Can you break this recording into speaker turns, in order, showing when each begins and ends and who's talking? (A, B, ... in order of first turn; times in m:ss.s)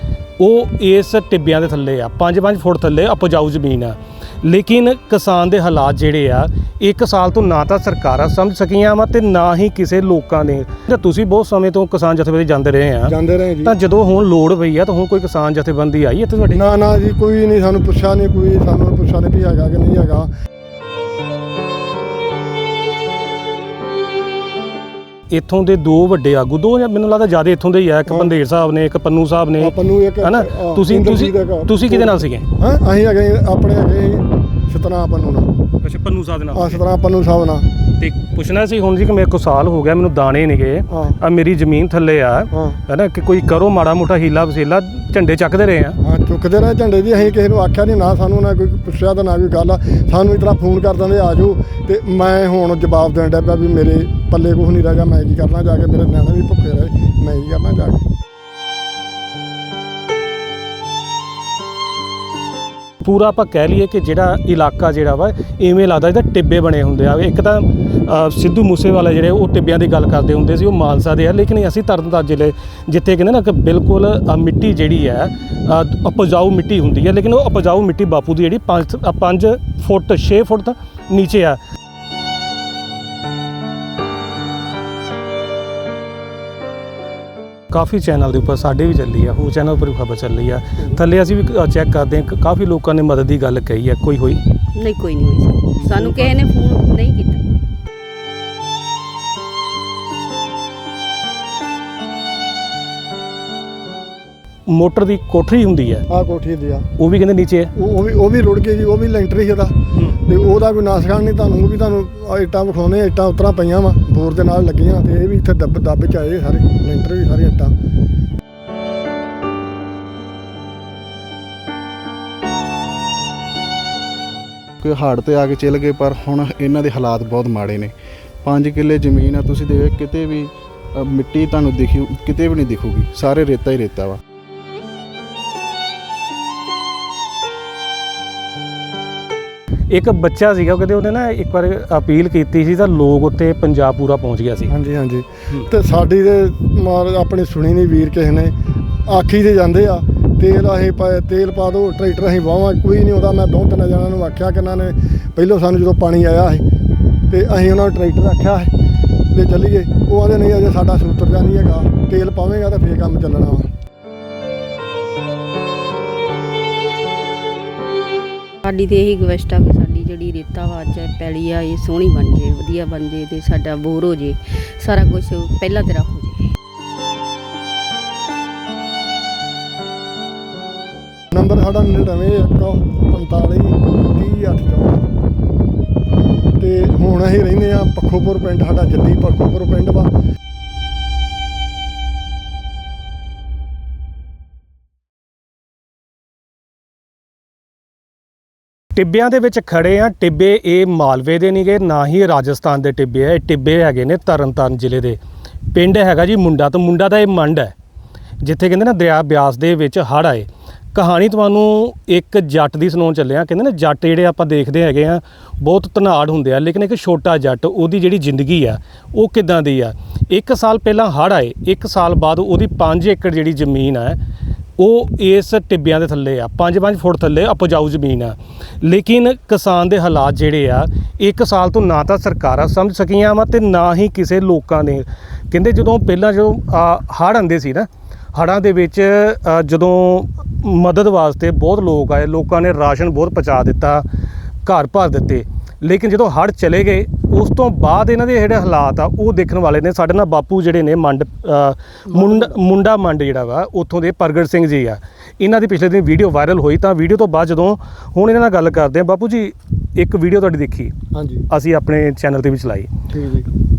0:00.4-0:16.7 A
0:13.1-0:13.8 B
0:16.5-0:20.3 B
0:25.3-0:32.4 A
0:29.6-0:35.5 B
0:35.8-0:36.8 A
0:36.5-0:37.7 B
0:38.0-0:46.0 A
0:40.9-0:41.2 B
0:42.5-0:42.8 B
0:46.0-0:58.0 B
1:03.0-1:21.6 A
1:27.7-1:34.4 A
1:34.8-1:37.6 C
1:35.9-1:36.3 A
1:44.7-1:46.0 A
1:46.1-1:46.9 B
1:47.0-1:47.7 A
1:47.8-1:57.7 B
2:04.8-2:07.9 D
2:08.4-2:14.2 D
2:19.9-2:24.7 A
2:24.7-2:28.5 B
2:29.1-2:36.6 B
2:37.3-2:38.7 B
2:39.3-2:43.7 B
2:48.6-2:56.4 C
3:01.3-3:05.0 B
3:06.6-3:10.1 B
3:19.0-3:25.2 A
3:25.7-3:27.7 A
3:28.4-3:44.2 A
3:44.8-4:04.1 A
4:04.6-4:20.9 A
4:12.1-4:12.6 B
4:21.1-4:21.4 B
4:21.5-4:22.9 A
4:23.1-4:23.5 B